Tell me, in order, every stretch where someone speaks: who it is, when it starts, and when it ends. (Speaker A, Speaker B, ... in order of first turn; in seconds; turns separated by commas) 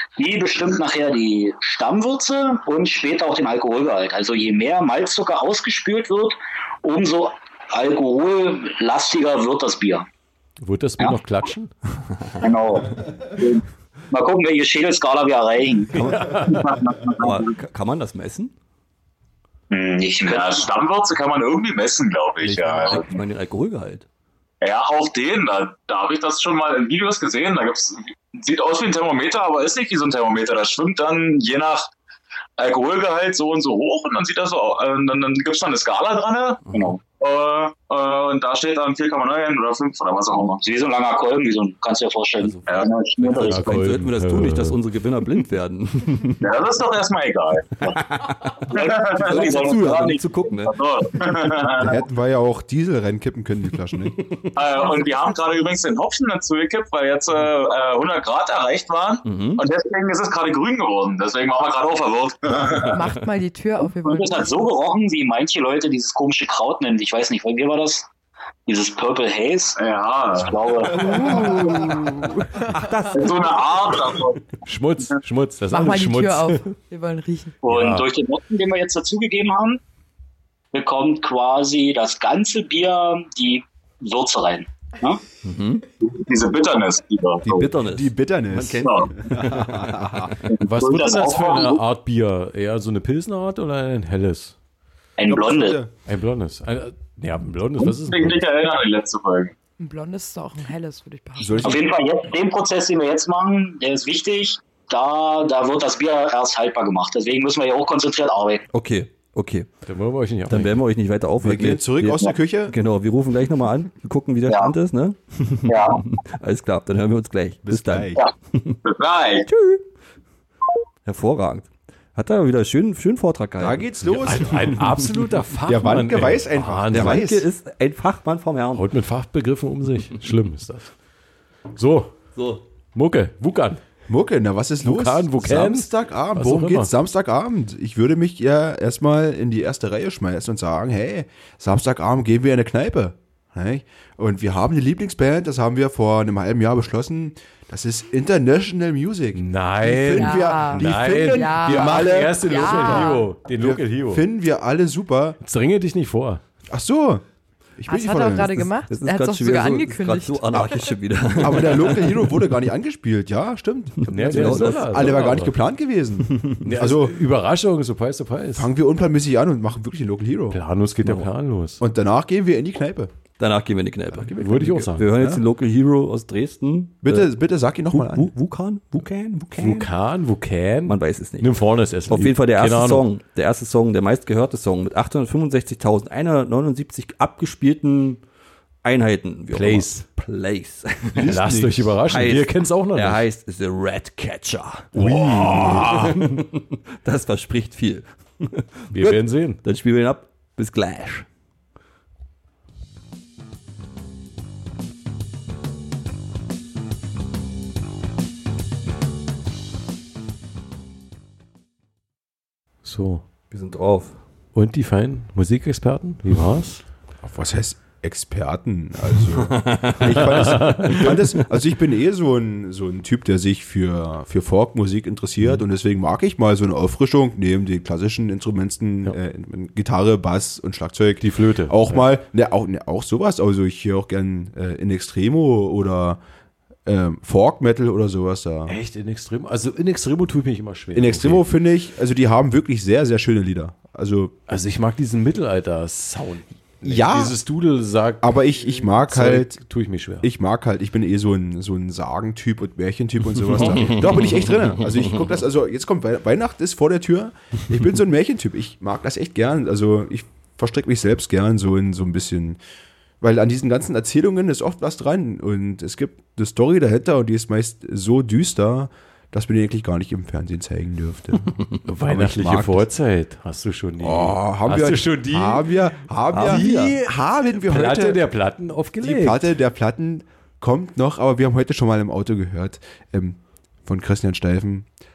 Speaker A: 0.2-10.1, Speaker B: 10.6-11.7, Speaker A: 12.4-17.4, Speaker C: 15.9-18.5, Speaker B: 16.2-16.5, Speaker D: 19.7-23.2, Speaker A: 20.1-20.7, Speaker C: 22.4-24.1, Speaker D: 24.6-31.9, Speaker D: 32.6-40.6, Speaker C: 36.7-36.9, Speaker A: 40.5-43.8, Speaker D: 42.6-43.0, Speaker C: 43.2-46.4, Speaker B: 43.4-44.8, Speaker D: 46.4-48.0, Speaker C: 47.8-50.7, Speaker D: 48.7-52.0, Speaker A: 48.7-50.2, Speaker E: 51.8-54.2, Speaker D: 54.5-63.0, Speaker C: 59.2-59.6, Speaker F: 62.9-64.5, Speaker A: 64.0-68.1, Speaker A: 68.7-69.8, Speaker D: 69.8-71.0, Speaker A: 70.4-71.0, Speaker F: 71.0-73.1, Speaker C: 71.1-71.9, Speaker C: 72.7-73.4, Speaker D: 73.1-74.4, Speaker B: 74.6-76.6, Speaker F: 75.7-77.5, Speaker A: 77.6-79.8, Speaker B: 77.7-78.0, Speaker A: 80.7-85.2, Speaker C: 85.4-85.8, Speaker D: 86.0-87.6, Speaker E: 87.4-90.3, Speaker C: 87.5-90.4, Speaker D: 88.8-89.1, Speaker B: 90.6-94.5, Speaker A: 90.8-91.8, Speaker A: 95.2-95.8, Speaker E: 95.3-95.9, Speaker B: 96.1-98.4, Speaker D: 97.9-99.5, Speaker F: 99.8-101.7, Speaker E: 101.4-101.9, Speaker A: 101.6-108.6, Speaker C: 108.7-109.7, Speaker B: 109.8-110.8, Speaker C: 110.5-118.8, Speaker E: 111.4-112.8, Speaker A: 114.5-114.7, Speaker A: 115.7-116.0, Speaker E: 117.6-118.2, Speaker D: 118.8-119.4, Speaker C: 119.5-119.8, Speaker C: 121.0-123.9, Speaker E: 123.6-124.8, Speaker B: 124.1-127.2, Speaker E: 125.7-127.5, Speaker C: 126.9-128.8, Speaker B: 128.7-130.9, Speaker B: 131.8-132.2, Speaker C: 132.3-132.6, Speaker B: 132.9-133.8, Speaker E: 134.1-155.4, Speaker B: 134.8-136.9, Speaker B: 149.3-154.2, Speaker F: 150.2-153.3, Speaker B: 155.4-156.4, Speaker E: 156.7-157.2, Speaker E: 157.8-158.7, Speaker F: 157.8-160.9, Speaker C: 158.9-162.4, Speaker E: 161.4-167.2, Speaker C: 164.0-165.2, Speaker B: 164.1-165.6, Speaker B: 166.6-168.7, Speaker E: 168.5-170.6, Speaker B: 170.5-171.8, Speaker E: 171.8-173.1, Speaker C: 173.4-177.3, Speaker E: 174.1-174.7, Speaker B: 174.4-175.4, Speaker E: 177.0-178.3, Speaker C: 177.9-179.9, Speaker B: 179.6-183.1, Speaker C: 180.8-188.2, Speaker C: 188.8-191.3, Speaker B: 189.5-190.0, Speaker E: 191.1-191.9, Speaker B: 191.2-193.2, Speaker C: 192.1-201.2, Speaker B: 194.9-196.4, Speaker B: 198.9-199.6, Speaker B: 212.8-213.2, Speaker C: 213.5-214.2, Speaker B: 214.5-216.8, Speaker E: 217.2-236.2, Speaker C: 219.4-221.2, Speaker B: 220.2-221.1, Speaker B: 231.2-232.0, Speaker E: 236.8-238.8, Speaker B: 238.7-241.4, Speaker E: 240.9-244.3, Speaker B: 244.5-250.3, Speaker E: 246.8-247.4, Speaker E: 248.2-249.6, Speaker E: 250.2-262.6, Speaker C: 253.5-255.2, Speaker B: 253.6-253.9, Speaker E: 263.2-271.5, Speaker B: 271.9-275.8, Speaker E: 272.1-272.9, Speaker E: 274.0-278.3, Speaker C: 276.3-276.9, Speaker B: 276.3-279.4, Speaker E: 279.0-284.9